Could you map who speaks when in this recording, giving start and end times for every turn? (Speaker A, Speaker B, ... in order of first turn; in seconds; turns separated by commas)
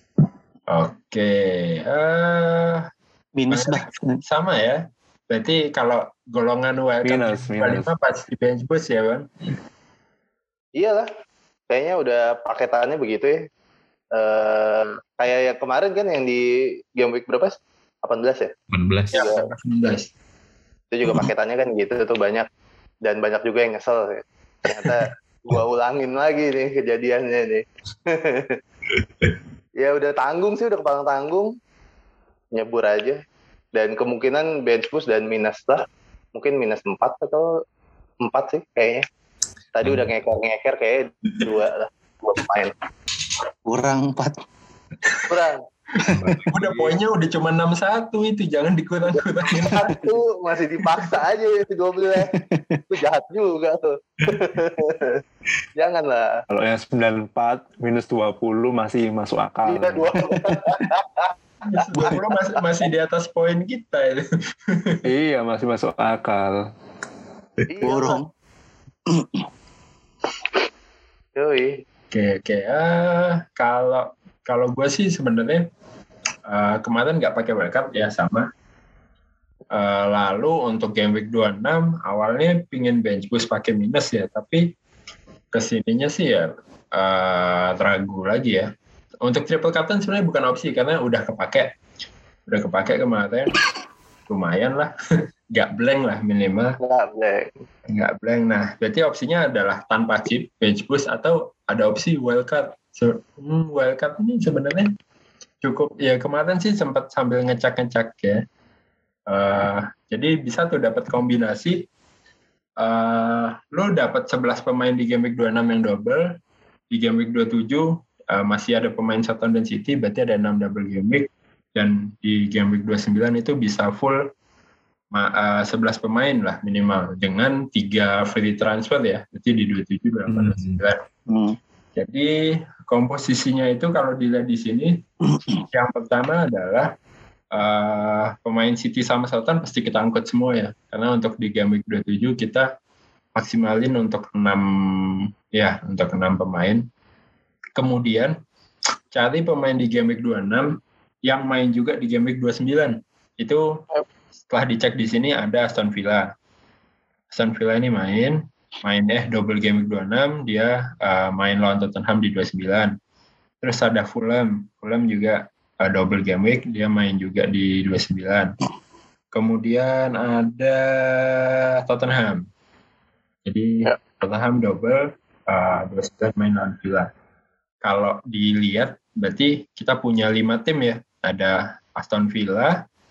Speaker A: 0.7-2.9, Speaker B: 3.4-4.2, Speaker A: 3.5-9.3, Speaker C: 7.0-7.9, Speaker D: 10.8-11.1, Speaker D: 11.7-13.4, Speaker D: 14.1-16.4, Speaker D: 17.0-18.5, Speaker E: 18.7-19.3, Speaker D: 19.1-19.5, Speaker A: 19.1-20.1, Speaker D: 20.9-22.5, Speaker D: 23.0-28.6, Speaker D: 29.8-31.5, Speaker D: 32.5-33.2, Speaker D: 33.7-35.8, Speaker D: 36.4-37.5, Speaker D: 38.2-39.0, Speaker D: 39.7-42.7, Speaker B: 43.7-44.3, Speaker D: 45.3-45.6, Speaker E: 46.0-47.0, Speaker A: 46.5-50.0, Speaker D: 49.2-52.3, Speaker B: 52.2-52.9, Speaker D: 52.9-55.2, Speaker D: 55.8-56.3, Speaker C: 56.5-60.1, Speaker D: 59.7-62.6, Speaker B: 60.2-60.7, Speaker A: 61.6-65.0, Speaker C: 65.0-66.7, Speaker D: 67.7-68.2, Speaker B: 67.8-68.3, Speaker B: 69.1-69.5, Speaker D: 71.3-71.8, Speaker A: 72.1-75.7, Speaker A: 76.5-78.5, Speaker A: 79.7-84.7, Speaker A: 85.5-88.7, Speaker A: 89.2-91.7, Speaker A: 92.5-93.5, Speaker A: 94.3-94.9, Speaker A: 95.5-96.8, Speaker D: 96.8-97.5, Speaker A: 97.9-104.9, Speaker A: 105.6-108.4, Speaker A: 109.3-111.9, Speaker A: 112.8-116.4, Speaker A: 116.9-124.3, Speaker A: 125.1-131.0, Speaker E: 130.3-130.8, Speaker B: 131.3-131.6, Speaker A: 132.0-132.3, Speaker A: 132.9-135.0, Speaker B: 135.3-135.6, Speaker A: 135.7-136.9, Speaker A: 137.5-142.7, Speaker A: 143.3-146.9, Speaker A: 147.8-148.3, Speaker A: 149.1-153.6, Speaker A: 154.5-156.3, Speaker A: 157.3-163.0, Speaker A: 163.6-168.6, Speaker A: 169.3-172.5, Speaker A: 173.5-177.1, Speaker A: 177.8-182.8